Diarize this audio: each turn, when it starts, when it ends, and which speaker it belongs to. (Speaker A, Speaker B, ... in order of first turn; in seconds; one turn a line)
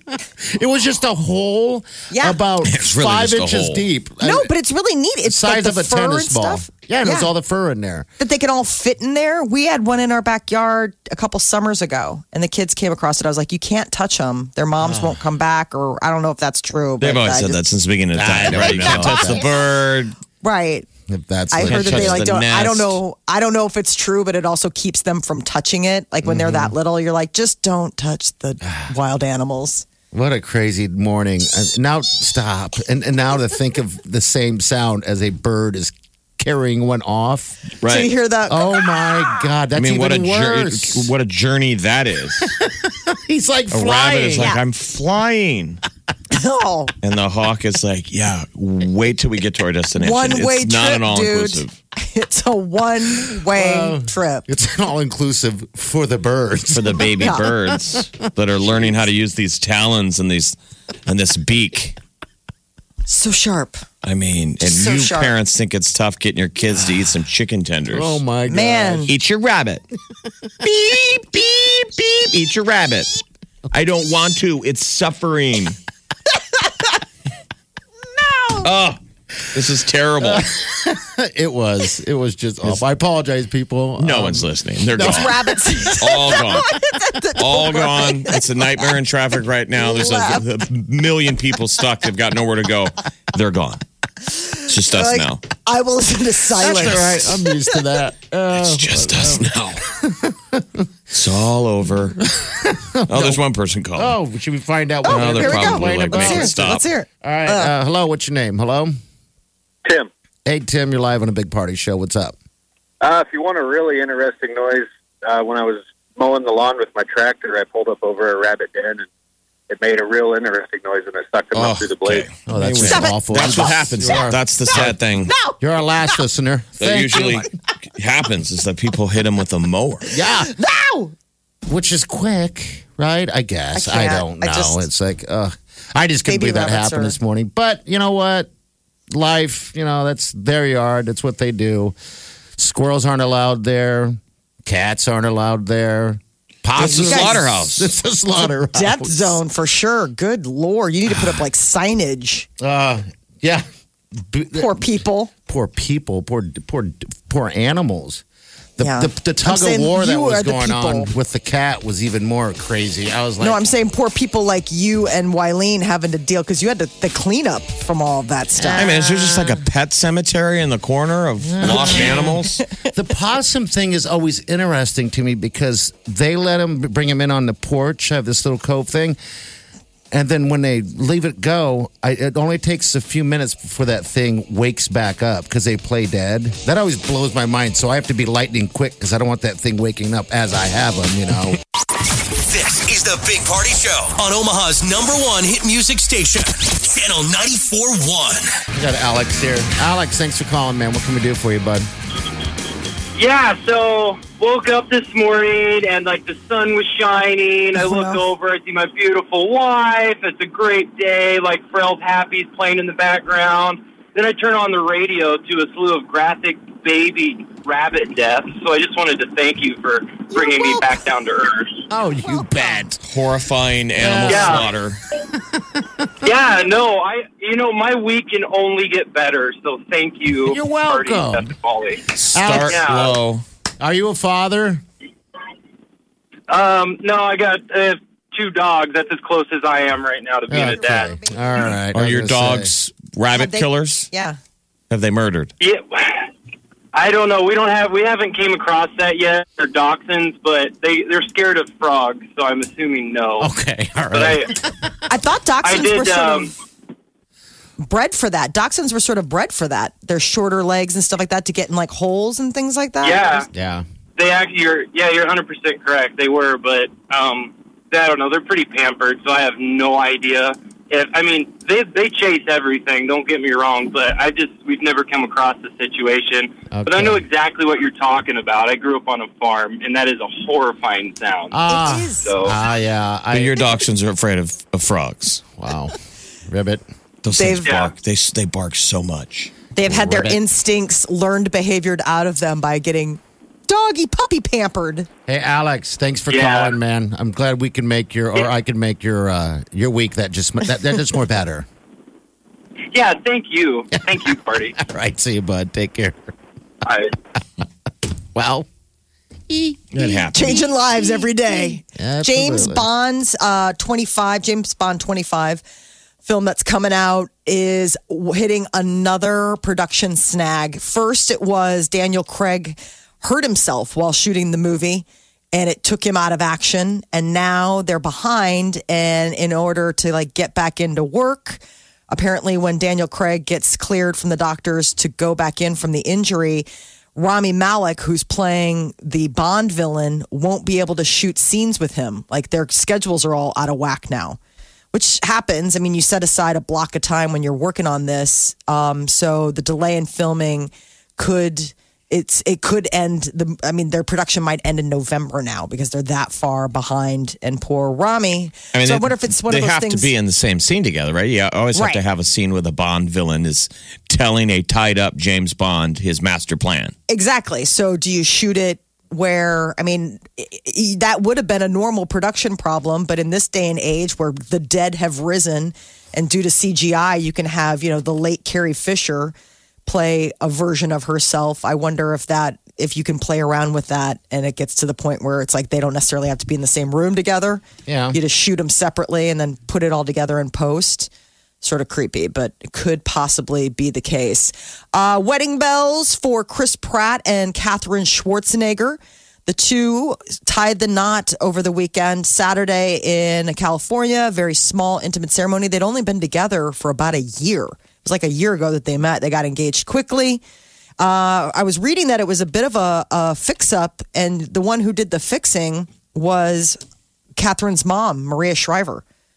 Speaker A: 0.1-4.5
Speaker B: 2.1-2.4
Speaker C: 2.6-3.9
Speaker B: 4.2-7.3
Speaker A: 5.2-8.1
Speaker B: 8.2-17.6
Speaker A: 14.8-15.2
Speaker C: 17.0-20.2
Speaker A: 18.1-19.5
Speaker B: 18.6-19.4
Speaker B: 20.4-20.9
Speaker A: 21.1-22.2
Speaker B: 21.5-29.9
Speaker C: 21.6-23.0
Speaker A: 26.2-26.8
Speaker A: 30.1-37.7
Speaker C: 37.8-38.1
Speaker B: 37.8-38.8
Speaker A: 38.5-41.1
Speaker C: 39.8-42.5
Speaker A: 42.4-44.5
Speaker C: 43.7-45.8
Speaker B: 44.4-44.6
Speaker B: 46.3-46.9
Speaker C: 47.0-51.8
Speaker B: 50.0-54.5
Speaker A: 53.3-58.2
Speaker C: 56.7-62.0
Speaker B: 57.2-57.5
Speaker B: 63.1-63.8
Speaker C: 64.0-68.2
Speaker B: 64.6-65.3
Speaker A: 67.9-69.1
Speaker B: 68.5-69.1
Speaker C: 69.1-69.8
Speaker C: 70.6-73.1
Speaker C: 73.7-75.8
Speaker C: 78.6-79.0
Speaker C: 79.5-80.5
Speaker A: 80.2-85.5
Speaker C: 84.0-85.4
Speaker B: 85.0-88.5
Speaker C: 86.0-86.8
Speaker C: 87.3-93.8
Speaker B: 89.8-90.4
Speaker C: 94.7-95.4
Speaker B: 94.9-97.3
Speaker A: 96.6-100.9
Speaker C: 96.7-97.3
Speaker C: 98.5-99.8
Speaker C: 101.1-102.2
Speaker A: 102.2-103.4
Speaker C: 103.1-104.2
Speaker A: 104.0-106.6
Speaker B: 105.0-107.7
Speaker C: 105.1-106.8
Speaker A: 107.2-109.0
Speaker A: 110.5-112.3
Speaker D: 113.0-119.1
Speaker D: 119.7-122.3
Speaker C: 121.5-125.3
Speaker A: 122.5-125.0
Speaker B: 122.8-126.2
Speaker A: 125.6-127.5
Speaker C: 126.8-130.1
Speaker A: 130.1-130.5
Speaker B: 130.5-131.1
Speaker A: 131.7-138.5
Speaker B: 133.7-134.9
Speaker B: 136.3-137.2
Speaker A: 139.1-141.9
Speaker A: 142.6-149.4
Speaker C: 146.8-147.9
Speaker B: 146.8-147.5
Speaker B: 148.7-152.5
Speaker A: 152.6-154.9
Speaker B: 154.6-155.3
Speaker A: 155.5-158.2
Speaker A: 158.8-163.6
Speaker B: 158.8-161.1
Speaker B: 163.4-168.9
Speaker A: 168.6-169.7
Speaker C: 168.8-172.6
Speaker A: 171.4-179.2
Speaker B: 171.6-172.4
Speaker A: 180.1-191.6
Speaker E: 192.2-198.5
Speaker A: 198.7-201.9
Speaker F: 203.2-221.9
Speaker B: 207.8-208.2
Speaker A: 221.9-223.0
Speaker C: 223.0-225.0
Speaker A: 224.0-224.7
Speaker F: 224.3-224.7
Speaker F: 226.2-233.2
Speaker A: 230.4-231.5
Speaker C: 232.2-233.4
Speaker A: 232.3-232.8
Speaker A: 233.8-234.8
Speaker F: 236.5-241.2
Speaker A: 240.5-242.7
Speaker B: 240.6-241.7
Speaker C: 241.9-244.1
Speaker B: 243.3-244.4
Speaker C: 244.9-245.5
Speaker F: 245.6-246.3
Speaker F: 246.9-253.5
Speaker A: 253.4-254.7
Speaker F: 254.1-254.5
Speaker B: 255.1-256.5
Speaker F: 255.6-256.5
Speaker B: 257.8-263.5
Speaker F: 263.0-263.5
Speaker A: 263.5-263.9
Speaker F: 264.2-281.6
Speaker A: 276.7-277.2
Speaker A: 281.5-283.7
Speaker B: 281.7-282.4
Speaker F: 282.2-282.6
Speaker C: 283.3-285.4
Speaker A: 285.6-285.9
Speaker A: 286.5-286.8
Speaker C: 287.2-290.2
Speaker B: 287.3-287.8
Speaker F: 287.6-287.9
Speaker B: 289.8-295.1
Speaker A: 290.0-290.3
Speaker A: 295.3-301.7
Speaker F: 296.3-296.8
Speaker F: 302.9-304.8
Speaker A: 304.8-306.3
Speaker F: 306.8-307.1
Speaker A: 308.3-308.7
Speaker A: 309.5-310.4
Speaker C: 309.9-310.7
Speaker B: 310.3-315.6
Speaker A: 311.9-312.9
Speaker B: 316.2-344.4
Speaker B: 344.9-360.1
Speaker C: 358.7-366.9
Speaker B: 361.7-362.0
Speaker B: 367.1-379.4
Speaker B: 379.9-391.1
Speaker A: 387.9-388.2
Speaker B: 391.6-410.4
Speaker B: 411.0-416.8
Speaker B: 417.4-419.0